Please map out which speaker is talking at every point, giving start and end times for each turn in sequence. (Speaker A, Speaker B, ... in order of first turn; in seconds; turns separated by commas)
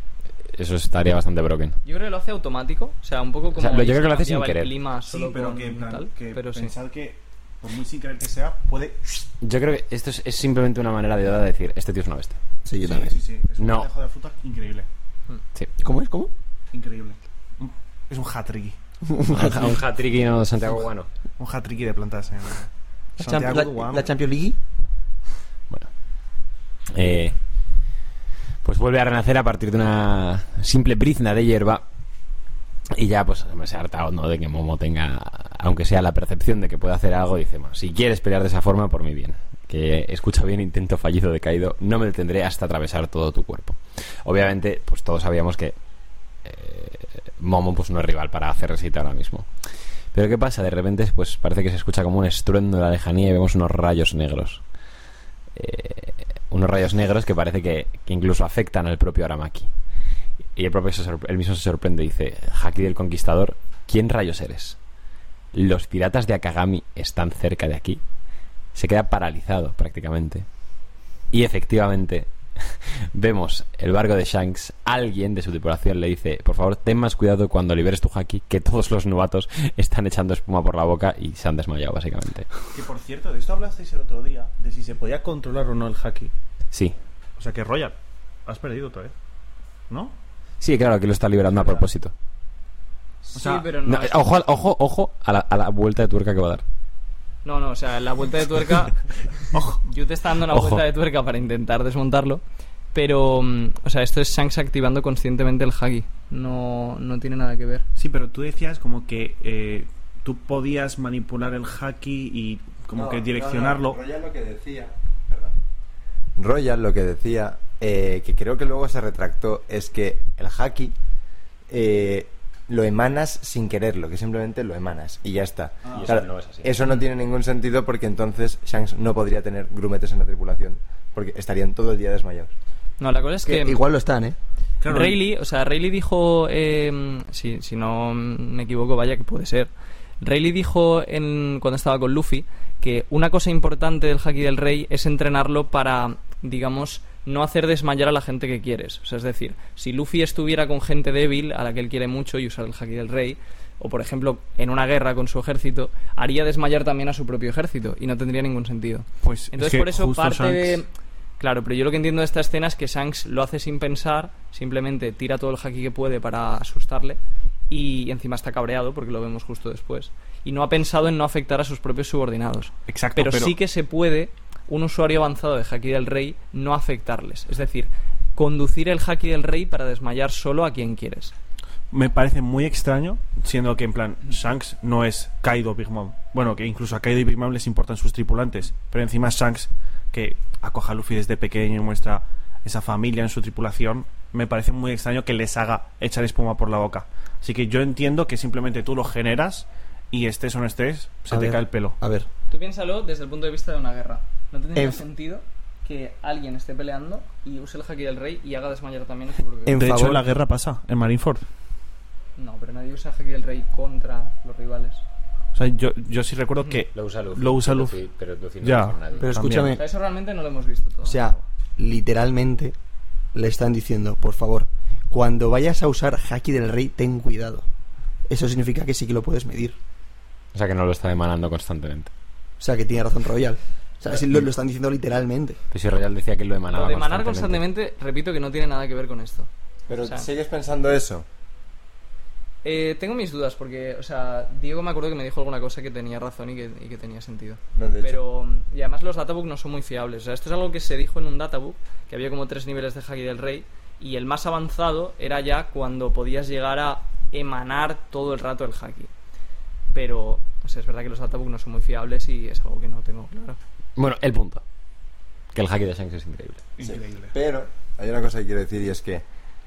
Speaker A: 0.4-1.8, Speaker B: 1.8-6.7, Speaker A: 3.5-4.7, Speaker C: 5.0-9.2, Speaker A: 9.4-12.4, Speaker D: 12.7-13.2, Speaker C: 12.8-14.9, Speaker A: 13.6-13.9, Speaker D: 15.8-16.3, Speaker C: 16.7-18.8, Speaker D: 19.1-19.7, Speaker A: 19.3-21.1, Speaker C: 21.4-24.1, Speaker D: 23.2-24.6, Speaker A: 26.9-27.4, Speaker A: 28.6-31.8, Speaker A: 32.9-45.8, Speaker A: 46.4-49.5, Speaker A: 50.1-54.6, Speaker A: 55.5-59.7, Speaker A: 60.5-64.8, Speaker A: 65.5-68.0, Speaker A: 68.7-70.5, Speaker A: 71.3-82.6, Speaker C: 82.7-86.3, Speaker C: 87.4-89.1, Speaker C: 89.9-90.2, Speaker A: 90.6-92.1, Speaker C: 91.6-91.8, Speaker B: 93.2-94.2, Speaker C: 93.3-93.7, Speaker A: 93.8-96.6, Speaker B: 97.4-99.0, Speaker C: 99.5-99.8, Speaker B: 99.8-102.4, Speaker A: 100.5-100.8, Speaker B: 102.9-107.8, Speaker C: 108.0-114.0, Speaker E: 112.9-115.5, Speaker E: 116.4-120.9, Speaker E: 121.7-132.5, Speaker A: 125.9-126.8, Speaker B: 133.0-133.8, Speaker D: 133.4-134.4, Speaker C: 134.8-135.2, Speaker B: 134.8-160.9, Speaker C: 159.2-160.8, Speaker B: 161.4-167.2, Speaker B: 167.7-181.3, Speaker C: 172.9-173.6, Speaker C: 181.9-202.0, Speaker D: 201.3-202.3, Speaker B: 202.5-209.8, Speaker D: 204.7-205.0, Speaker D: 209.7-210.2, Speaker C: 209.7-211.4, Speaker B: 212.4-215.0, Speaker C: 215.5-218.0, Speaker A: 216.9-219.3, Speaker C: 218.6-219.7, Speaker D: 219.2-219.8, Speaker B: 219.7-221.3, Speaker D: 221.0-222.8, Speaker D: 223.3-227.7, Speaker D: 228.3-229.8, Speaker A: 230.5-232.1, Speaker D: 232.6-235.6, Speaker A: 235.7-237.6, Speaker B: 236.7-239.5, Speaker E: 239.9-241.2, Speaker B: 240.0-240.3, Speaker B: 242.6-259.1, Speaker E: 247.7-248.2, Speaker B: 259.9-263.6, Speaker A: 264.0-264.6, Speaker A: 265.5-266.6, Speaker C: 266.8-267.3, Speaker E: 266.8-269.2